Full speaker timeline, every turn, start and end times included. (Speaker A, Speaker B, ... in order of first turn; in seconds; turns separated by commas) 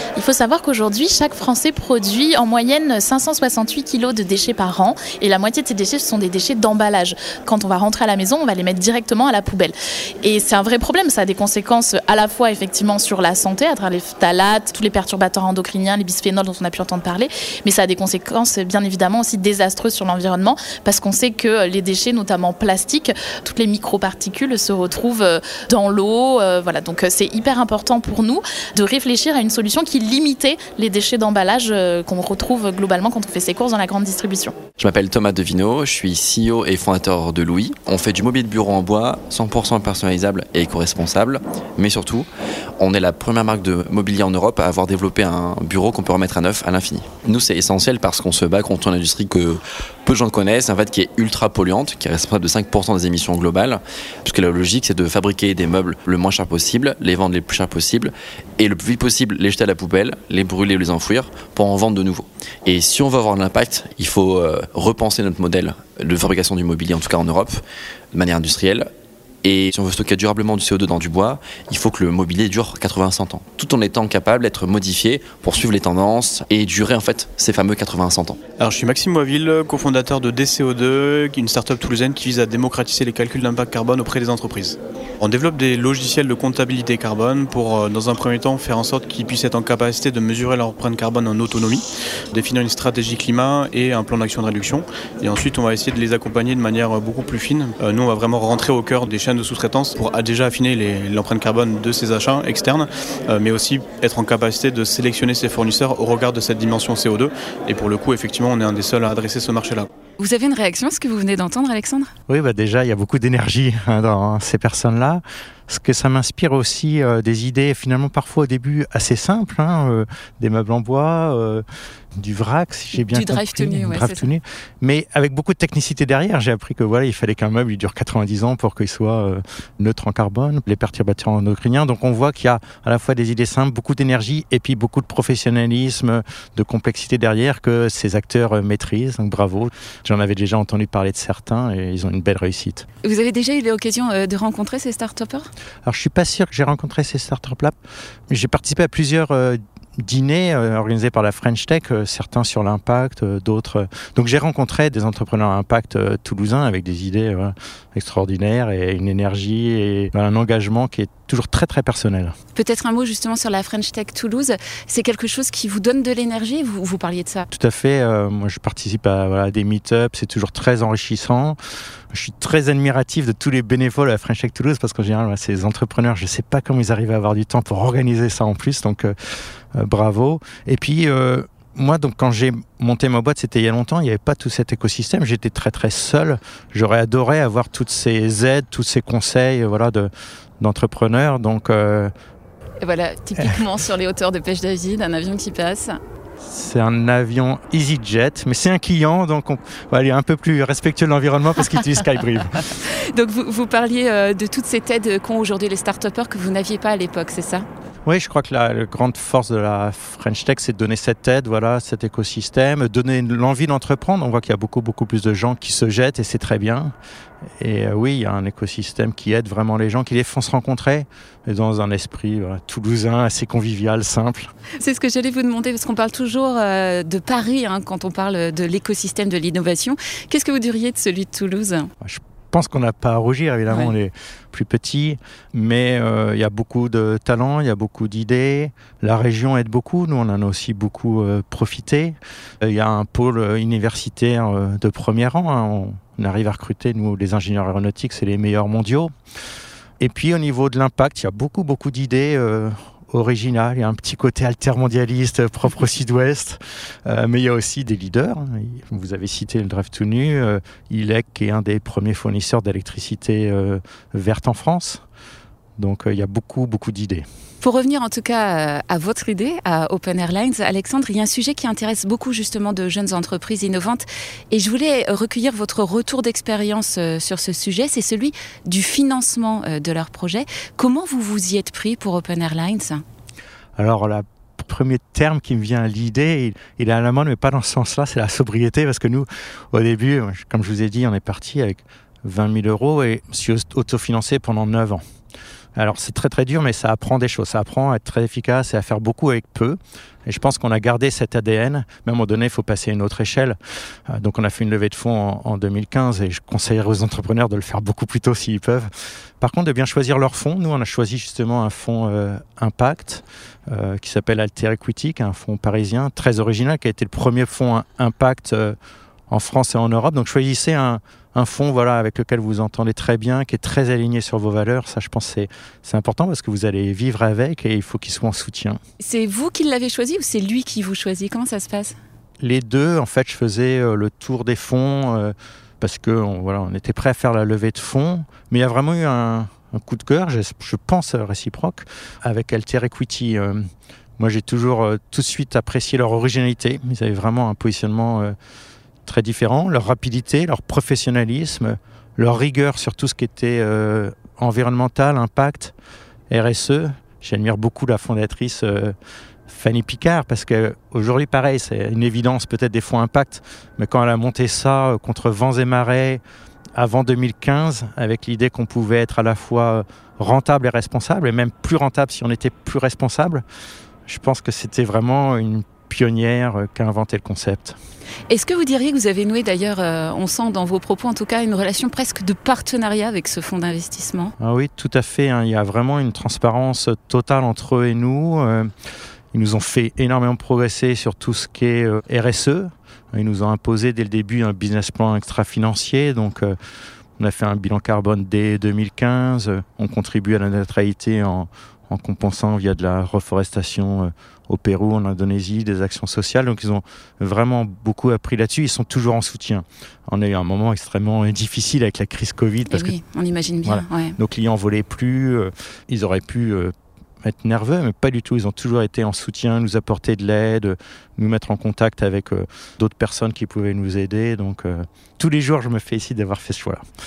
Speaker A: 0.1-34.6, Speaker B: 34.8-42.3, Speaker B: 42.8-67.6, Speaker B: 68.1-68.9, Speaker B: 69.4-78.4, Speaker C: 78.6-109.9, Speaker D: 110.2-112.1, Speaker E: 112.3-121.6, Speaker E: 122.2-142.8, Speaker D: 123.0-124.3, Speaker D: 143.0-145.5, Speaker E: 145.8-147.7, Speaker E: 148.3-162.3, Speaker D: 162.5-167.5, Speaker E: 167.5-171.6, Speaker E: 172.1-179.1, Speaker E: 179.7-192.1, Speaker D: 192.8-196.0, Speaker E: 196.4-202.6, Speaker D: 202.7-207.7, Speaker E: 208.1-216.9, Speaker E: 217.6-224.5, Speaker D: 224.8-231.9, Speaker E: 232.0-249.1, Speaker E: 250.0-265.0, Speaker E: 265.8-267.3, Speaker D: 267.6-283.0, Speaker E: 283.8-295.0, Speaker E: 295.8-303.6, Speaker E: 304.1-318.8, Speaker E: 319.3-328.8, Speaker D: 329.0-331.9, Speaker E: 332.4-348.3, Speaker E: 349.1-355.7, Speaker E: 356.3-358.9, Speaker E: 359.5-366.2, Speaker E: 366.8-373.4, Speaker E: 374.1-377.8, Speaker D: 378.3-384.3, Speaker E: 384.4-388.7, Speaker E: 389.3-396.6, Speaker E: 397.2-412.9, Speaker D: 412.7-414.2, Speaker E: 413.6-426.8